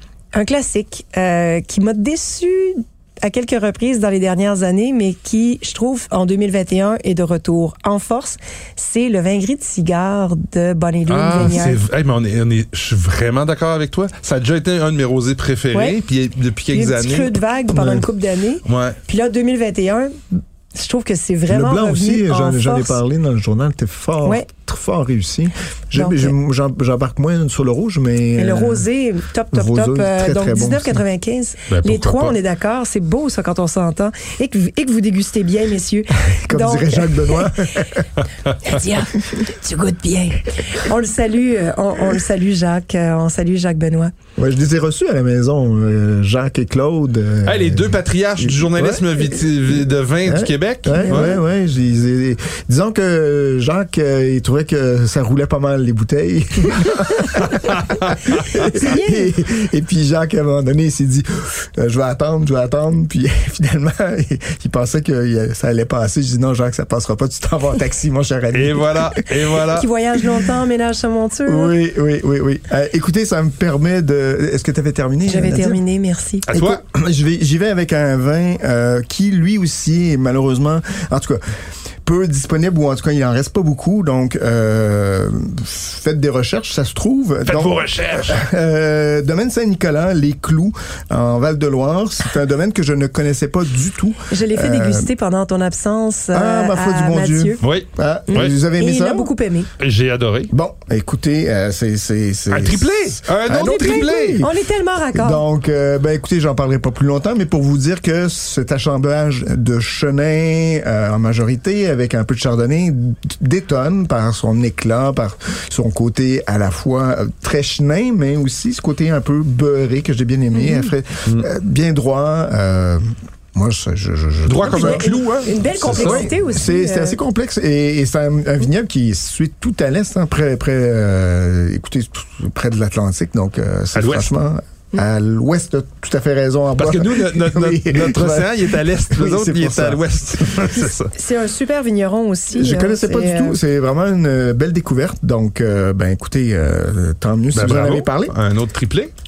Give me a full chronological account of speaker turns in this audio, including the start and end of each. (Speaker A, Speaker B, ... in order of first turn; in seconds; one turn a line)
Speaker A: 0.3-11.8
Speaker B: 11.1-17.4
Speaker A: 16.7-23.0
Speaker B: 18.6-19.0
Speaker C: 21.5-28.9
Speaker A: 25.9-26.3
Speaker A: 28.4-37.5
Speaker C: 29.5-31.0
Speaker B: 31.7-32.4
Speaker C: 36.3-38.1
Speaker A: 38.6-44.1
Speaker C: 44.4-49.4
Speaker B: 47.5-51.4
Speaker C: 50.2-69.3
Speaker A: 51.0-51.3
Speaker B: 57.7-58.7
Speaker A: 58.6-59.3
Speaker B: 68.5-69.9
Speaker A: 69.7-71.7
Speaker C: 71.5-75.8
Speaker A: 75.3-76.5
Speaker B: 76.5-76.8
Speaker C: 76.5-81.4
Speaker C: 82.0-95.1
Speaker B: 87.5-88.4
Speaker A: 94.3-97.6
Speaker C: 96.3-99.3
Speaker B: 97.6-98.5
Speaker A: 98.3-99.7
Speaker B: 99.8-100.5
Speaker C: 100.5-104.5
Speaker B: 102.5-104.4
Speaker A: 103.5-105.4
Speaker C: 105.1-123.0
Speaker A: 120.6-120.8
Speaker C: 123.5-125.2
Speaker B: 124.5-126.3
Speaker A: 124.7-127.2
Speaker C: 125.8-140.7
Speaker B: 133.9-134.3
Speaker B: 136.8-141.1
Speaker A: 140.8-143.6
Speaker C: 142.5-148.4
Speaker B: 147.5-149.1